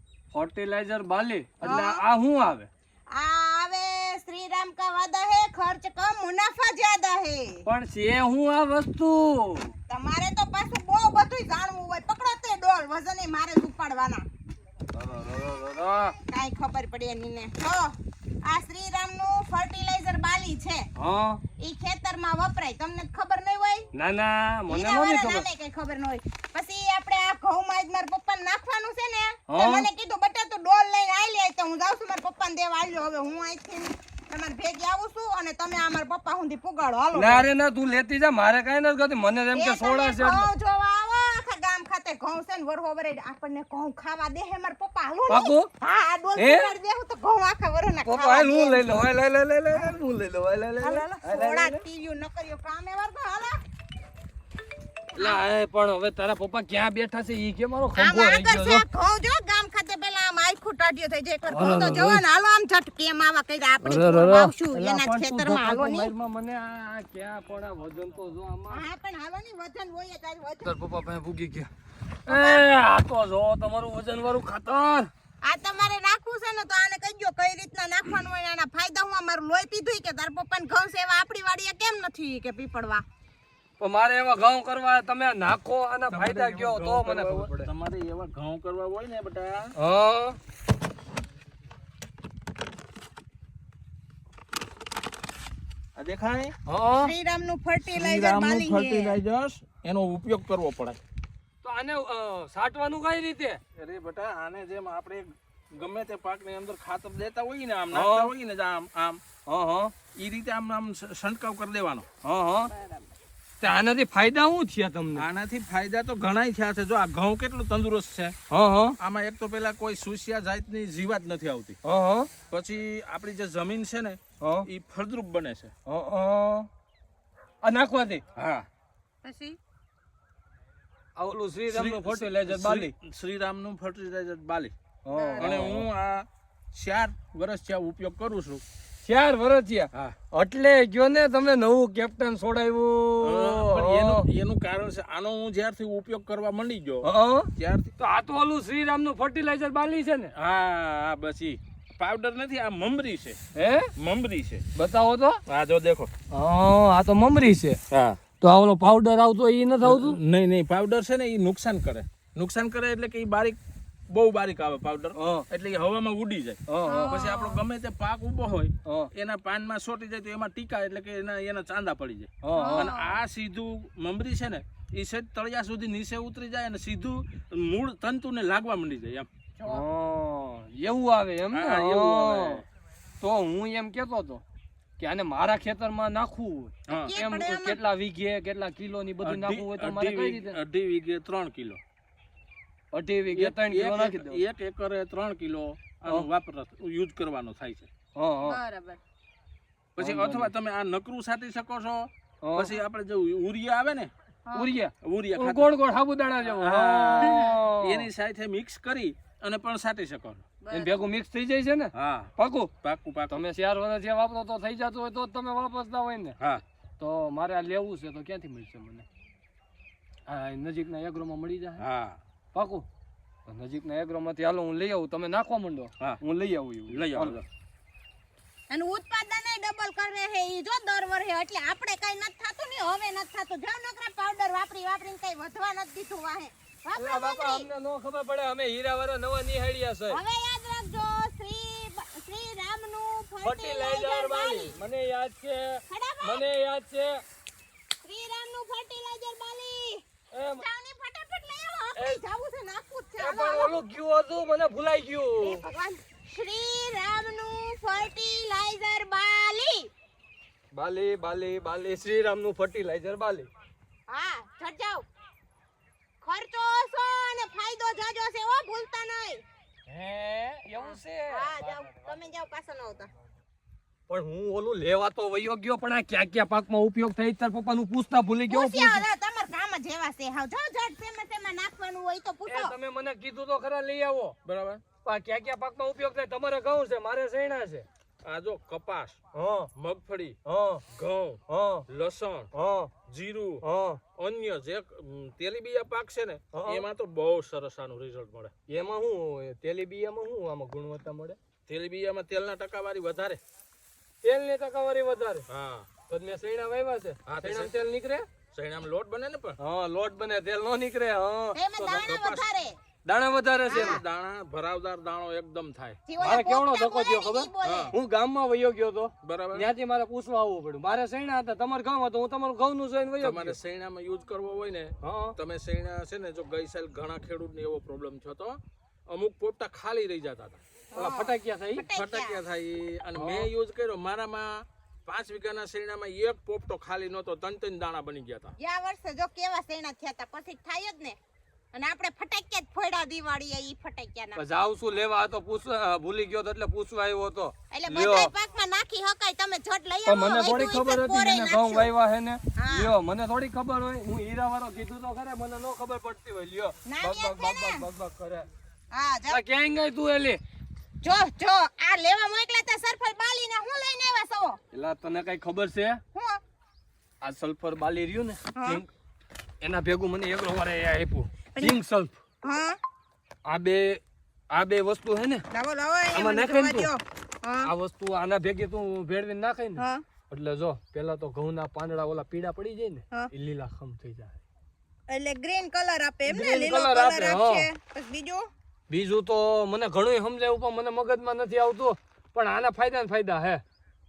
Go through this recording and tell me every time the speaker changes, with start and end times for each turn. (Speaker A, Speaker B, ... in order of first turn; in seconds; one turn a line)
Speaker A: 0.3-2.7
Speaker B: 1.6-2.0
Speaker B: 3.1-7.7
Speaker A: 7.7-9.7
Speaker B: 9.9-14.3
Speaker A: 14.9-16.2
Speaker B: 16.3-20.9
Speaker A: 21.0-21.4
Speaker B: 21.6-23.9
Speaker A: 23.9-25.5
Speaker B: 24.7-37.5
Speaker A: 29.5-29.9
Speaker A: 37.1-40.5
Speaker B: 39.5-49.1
Speaker A: 45.3-45.7
Speaker A: 46.4-46.7
Speaker A: 48.0-51.8
Speaker B: 50.8-53.6
Speaker B: 55.1-55.4
Speaker A: 55.2-58.8
Speaker B: 58.0-66.1
Speaker A: 61.5-62.2
Speaker A: 63.8-68.8
Speaker B: 68.7-70.8
Speaker A: 70.6-71.7
Speaker B: 72.3-72.7
Speaker A: 72.3-75.1
Speaker B: 75.4-83.0
Speaker A: 83.8-87.7
Speaker C: 86.1-89.7
Speaker A: 89.8-90.4
Speaker C: 96.0-96.5
Speaker A: 96.7-97.1
Speaker B: 97.0-99.2
Speaker C: 97.9-101.0
Speaker A: 101.6-103.6
Speaker C: 103.8-109.2
Speaker A: 107.9-108.3
Speaker A: 109.5-109.9
Speaker C: 110.2-112.1
Speaker A: 112.2-112.7
Speaker B: 112.7-113.1
Speaker A: 113.6-115.3
Speaker C: 115.2-118.4
Speaker A: 118.5-119.0
Speaker C: 119.0-121.8
Speaker A: 121.8-122.3
Speaker C: 122.5-125.7
Speaker A: 124.4-124.7
Speaker A: 125.9-126.7
Speaker A: 127.6-128.2
Speaker C: 128.3-128.7
Speaker B: 129.2-129.6
Speaker A: 131.2-132.9
Speaker C: 131.7-134.7
Speaker A: 135.1-135.9
Speaker B: 135.2-135.5
Speaker C: 135.4-138.6
Speaker A: 139.0-144.3
Speaker C: 143.2-147.9
Speaker A: 147.0-150.3
Speaker C: 150.3-153.4
Speaker A: 153.6-153.9
Speaker C: 154.0-154.6
Speaker A: 154.8-155.4
Speaker C: 155.5-156.1
Speaker A: 156.3-157.8
Speaker C: 157.9-158.2
Speaker A: 158.4-160.2
Speaker C: 159.8-163.6
Speaker C: 164.1-179.3
Speaker A: 165.2-165.5
Speaker A: 166.7-167.2
Speaker B: 166.9-167.6
Speaker A: 172.4-172.9
Speaker B: 172.6-173.1
Speaker B: 179.6-179.8
Speaker A: 179.7-182.6
Speaker C: 181.5-182.6
Speaker A: 183.2-184.4
Speaker A: 185.0-190.6
Speaker C: 186.9-187.1
Speaker B: 186.9-187.8
Speaker C: 189.2-191.8
Speaker A: 192.9-194.4
Speaker C: 193.3-197.9
Speaker A: 198.2-198.6
Speaker B: 198.5-199.0
Speaker C: 200.0-204.1
Speaker A: 200.0-200.5
Speaker A: 202.4-202.7
Speaker A: 204.5-208.1
Speaker C: 205.0-205.7
Speaker C: 206.5-210.6
Speaker B: 210.7-211.0
Speaker A: 210.7-212.7
Speaker C: 211.9-213.4
Speaker A: 213.3-216.4
Speaker A: 217.0-219.1
Speaker A: 220.3-221.8
Speaker C: 221.8-222.2
Speaker A: 222.5-222.9
Speaker A: 223.5-227.4
Speaker C: 226.9-227.4
Speaker B: 228.7-237.7
Speaker A: 237.0-240.2
Speaker B: 240.1-244.8
Speaker A: 243.4-247.2
Speaker B: 245.9-246.5
Speaker B: 248.0-250.0
Speaker A: 250.3-250.7
Speaker B: 250.6-253.7
Speaker A: 252.0-252.2
Speaker A: 253.2-255.6
Speaker B: 255.4-259.9
Speaker A: 260.7-263.5
Speaker B: 264.1-265.1
Speaker B: 266.2-269.4
Speaker A: 269.9-271.9
Speaker B: 270.8-273.1
Speaker A: 274.1-279.0
Speaker B: 278.5-282.8
Speaker A: 282.5-284.4
Speaker C: 284.4-284.8
Speaker A: 285.0-287.9
Speaker C: 288.2-289.2
Speaker A: 289.3-289.7
Speaker C: 289.7-290.4
Speaker A: 290.5-290.9
Speaker C: 290.9-292.5
Speaker A: 291.5-291.9
Speaker A: 292.5-292.9
Speaker C: 293.1-293.6
Speaker A: 293.6-294.0
Speaker C: 294.1-298.5
Speaker A: 296.5-296.8
Speaker A: 298.7-301.4
Speaker C: 301.7-303.4
Speaker A: 304.2-305.5
Speaker C: 305.5-305.9
Speaker A: 306.1-308.3
Speaker C: 307.3-307.8
Speaker C: 308.5-309.6
Speaker A: 309.6-312.1
Speaker B: 311.6-312.8
Speaker C: 312.1-312.5
Speaker A: 313.1-314.0
Speaker C: 313.7-316.0
Speaker B: 313.7-314.0
Speaker B: 316.1-318.0
Speaker A: 316.2-323.6
Speaker C: 317.6-317.9
Speaker C: 319.2-319.7
Speaker C: 323.2-330.6
Speaker A: 325.0-325.4
Speaker A: 330.9-331.9
Speaker B: 330.9-332.4
Speaker C: 331.9-338.5
Speaker A: 333.2-333.5
Speaker B: 338.6-341.2
Speaker B: 341.7-344.4
Speaker A: 344.4-348.3
Speaker B: 347.7-351.9
Speaker A: 350.1-358.5
Speaker B: 352.6-352.9
Speaker B: 356.9-357.9
Speaker B: 358.9-359.4
Speaker A: 359.3-360.4
Speaker B: 361.0-364.6
Speaker A: 364.7-366.0
Speaker B: 366.1-366.4
Speaker A: 367.2-368.9
Speaker B: 368.5-368.8
Speaker A: 369.6-372.1
Speaker B: 372.4-372.8
Speaker A: 373.4-375.4
Speaker B: 375.5-377.7
Speaker A: 376.1-376.9
Speaker A: 377.6-384.4
Speaker B: 379.8-380.0
Speaker B: 385.1-388.5
Speaker A: 386.3-387.7
Speaker A: 388.9-393.6